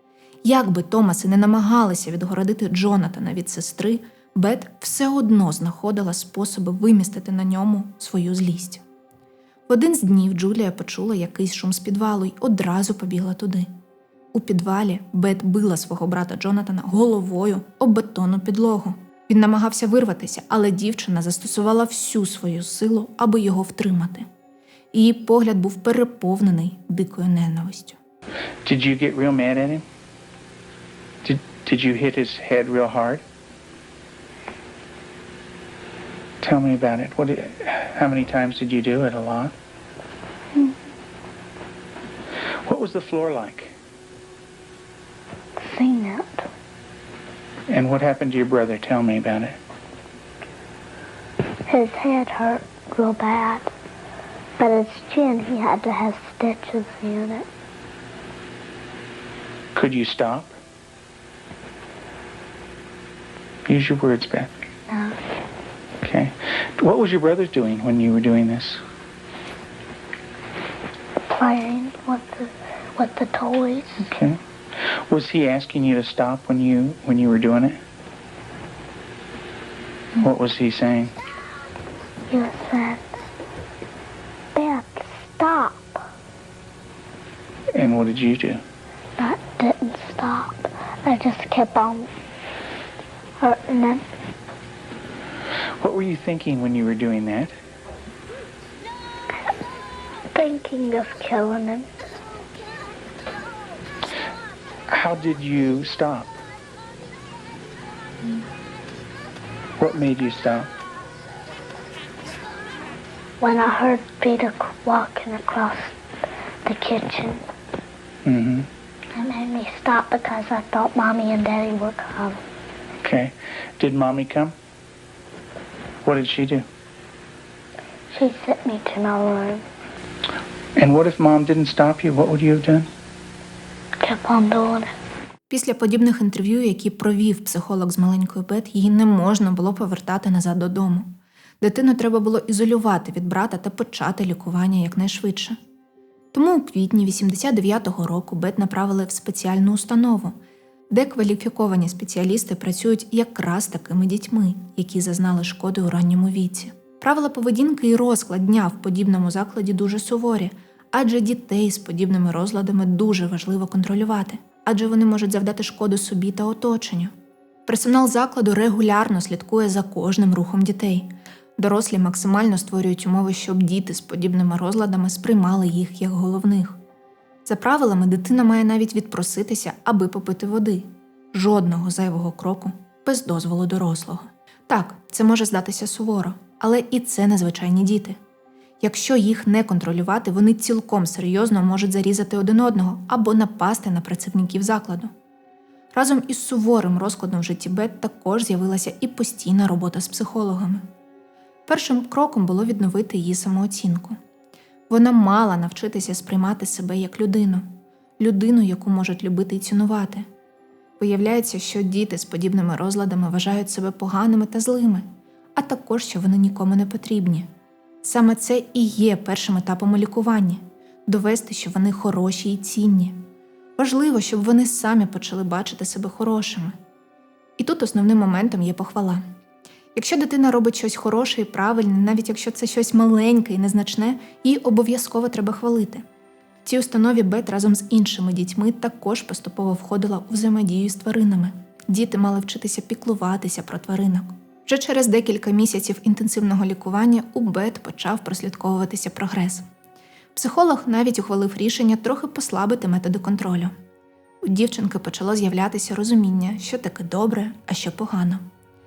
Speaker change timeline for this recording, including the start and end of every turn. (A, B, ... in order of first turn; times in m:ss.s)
0:00.4-0:08.8 A
0:09.7-0:13.7 A
0:14.3-0:24.3 A
0:24.9-0:28.0 A
0:28.6-0:29.8 B
0:31.2-0:33.2 B
0:36.4-0:39.6 B
0:42.6-0:43.8 B
0:45.6-0:46.5 C
0:47.7-0:49.6 B
0:51.7-0:53.7 C
0:54.6-0:57.5 C
0:59.8-1:00.5 B
1:03.7-1:04.5 B
1:04.9-1:05.2 C
1:06.0-1:08.8 B
1:11.3-1:14.1 C
1:14.0-1:17.8 B
1:20.2-1:21.1 B
1:22.3-1:23.0 C
1:24.6-1:26.0 C
1:27.7-1:28.6 B
1:29.2-1:32.1 C
1:33.4-1:34.1 C
1:35.8-1:37.6 B
1:40.3-1:41.9 C
1:44.9-1:46.4 B
1:49.8-1:50.7 B
1:53.4-1:56.0 C
1:56.6-1:57.4 C
1:58.2-1:58.7 B
1:59.2-2:02.4 C
2:03.0-2:04.6 B
2:06.0-2:06.7 B
2:08.1-2:09.6 C
2:10.8-2:12.9 B
2:14.0-2:14.9 C
2:15.5-2:25.6 A
2:26.3-2:30.4 A
2:30.9-2:47.1 A
2:47.7-2:56.8 A
2:57.5-3:08.2 A
3:08.8-3:15.1 A
3:15.9-3:20.8 A
3:21.7-3:24.2 A
3:24.9-3:27.7 A
3:28.2-3:30.3 A
3:31.0-3:37.5 A
3:38.0-3:43.2 A
3:43.8-3:46.8 A
3:47.6-3:49.2 A
3:50.0-3:56.0 A
3:56.6-4:09.7 A
4:10.4-4:13.7 A
4:14.4-4:18.4 A